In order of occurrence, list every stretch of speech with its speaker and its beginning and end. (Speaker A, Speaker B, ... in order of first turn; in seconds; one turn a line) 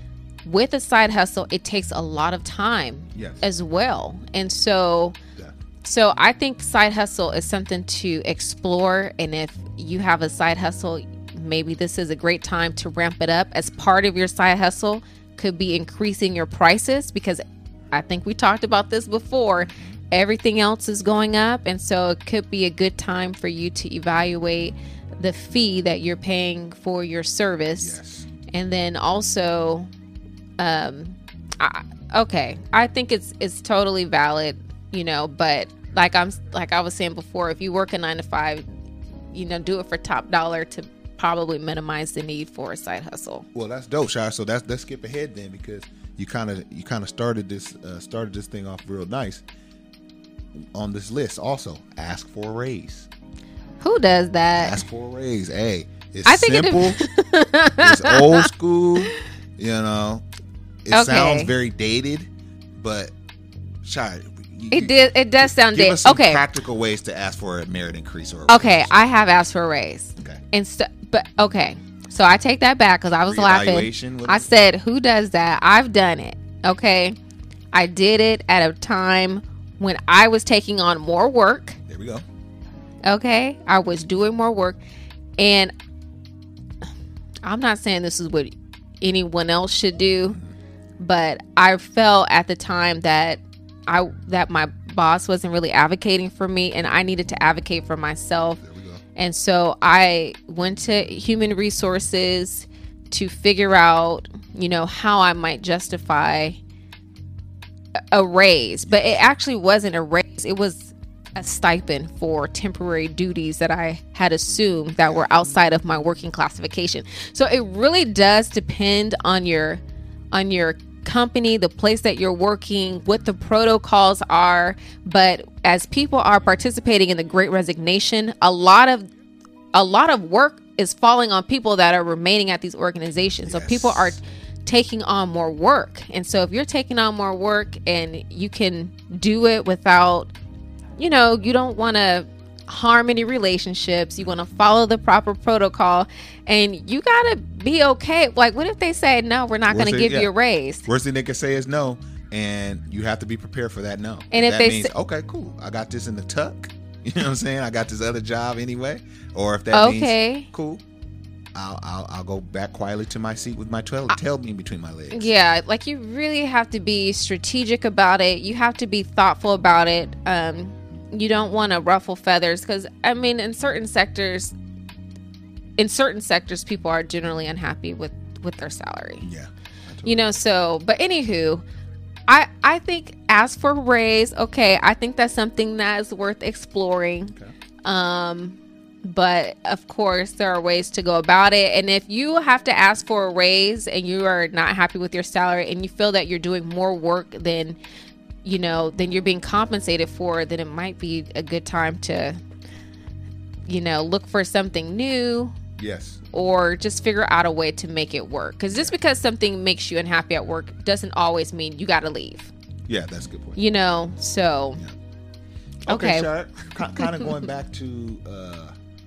Speaker A: 0.4-5.1
Speaker B: 3.1-3.4
Speaker A: 5.8-28.0
Speaker B: 27.8-28.2
Speaker A: 28.5-29.9
Speaker A: 30.6-38.6
Speaker A: 39.3-43.5
Speaker B: 43.5-49.4
Speaker B: 50.5-53.1
Speaker A: 53.8-54.8
Speaker B: 54.5-57.0
Speaker A: 56.2-58.5
Speaker B: 57.8-60.2
Speaker B: 60.8-63.1
Speaker A: 60.9-61.5
Speaker B: 63.8-69.0
Speaker A: 64.7-66.4
Speaker A: 68.5-77.2
Speaker B: 73.3-74.5
Speaker A: 77.7-81.8
Speaker B: 81.9-82.2
Speaker A: 83.0-84.8
Speaker A: 85.4-85.7
Speaker A: 87.4-90.4
Speaker A: 91.0-98.6
Speaker B: 98.6-99.0
Speaker A: 99.2-106.6
Speaker A: 108.1-119.8
Speaker B: 108.9-109.2
Speaker A: 120.3-129.1
Speaker A: 129.7-140.3
Speaker B: 133.4-134.2
Speaker A: 141.0-150.9
Speaker B: 149.7-150.3
Speaker B: 150.8-160.8
Speaker A: 154.3-154.9
Speaker A: 159.7-160.5
Speaker B: 161.5-165.3
Speaker A: 165.1-174.5
Speaker A: 175.8-179.3
Speaker B: 179.2-180.3
Speaker A: 180.0-181.6
Speaker A: 182.3-197.8
Speaker A: 198.4-202.4
Speaker A: 203.7-205.6
Speaker B: 205.8-206.2
Speaker A: 206.3-212.5
Speaker B: 212.9-213.6
Speaker A: 213.6-214.8
Speaker B: 215.9-218.7
Speaker A: 215.9-216.3
Speaker A: 216.9-217.2